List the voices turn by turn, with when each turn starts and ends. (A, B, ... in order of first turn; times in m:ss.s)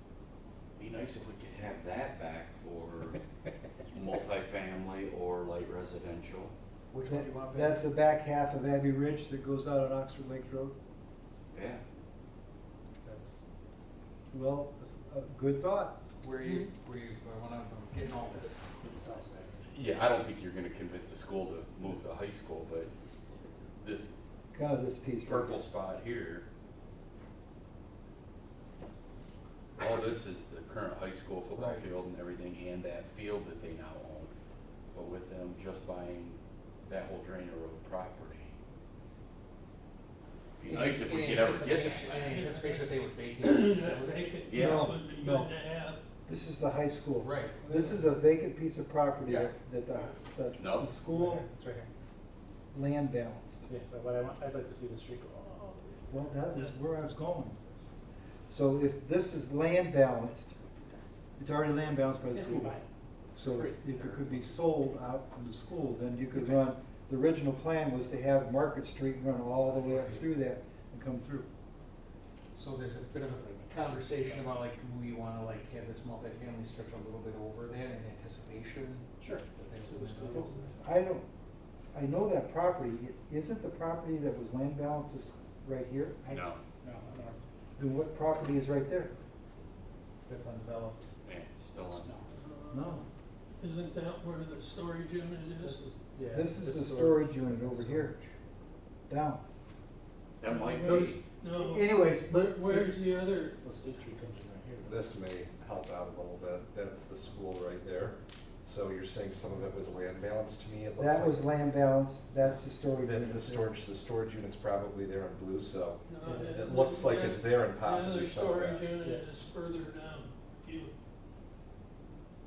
0:00.8-0:03.2 A
0:03.8-0:06.5 A
0:06.9-0:07.8 B
0:07.0-0:10.8 C
0:11.5-0:11.8 A
0:13.0-0:13.4 D
0:14.3-0:16.0 C
0:16.2-0:18.6 B
0:18.2-0:19.7 D
0:19.7-0:22.9 A
0:22.9-0:23.7 D
0:23.8-0:24.1 A
0:24.5-0:25.6 C
0:25.2-0:26.4 A
0:29.8-0:34.3 A
0:31.5-0:31.8 B
0:34.9-0:38.5 A
0:40.6-0:42.4 A
0:40.6-0:44.4 B
0:42.2-0:46.0 E
0:44.5-0:45.0 A
0:44.5-0:45.5 C
0:46.3-0:51.4 C
0:47.2-0:48.0 B
0:47.5-0:47.9 D
0:49.2-0:49.5 A
0:50.5-0:51.0 A
0:51.2-0:51.9 B
0:52.7-0:53.7 C
0:53.7-0:56.2 D
0:56.1-0:57.9 C
0:58.5-1:00.5 C
1:01.4-1:02.8 C
1:02.3-1:02.8 D
1:03.3-1:11.5 C
1:03.4-1:04.6 A
1:09.6-1:10.3 B
1:12.5-1:20.7 B
1:13.2-1:14.6 D
1:19.2-1:20.9 D
1:20.8-1:21.2 C
1:21.9-1:26.5 C
1:26.3-1:26.6 A
1:26.8-1:27.4 D
1:27.8-1:29.2 C
1:30.2-1:31.1 B
1:31.2-1:32.1 A
1:31.9-1:32.3 D
1:32.3-1:33.0 E
1:32.7-1:33.0 C
1:33.6-1:35.8 E
1:35.6-1:38.3 D
1:36.3-1:38.2 C
1:39.1-1:39.4 C
1:40.4-1:41.2 A
1:40.4-1:43.6 E
1:40.8-1:43.0 C
1:43.6-1:45.1 D
1:44.8-1:51.5 F
1:51.0-1:53.7 C
1:53.0-1:58.9 F
1:56.1-2:00.9 E
1:56.2-1:56.7 C
1:59.0-1:59.3 D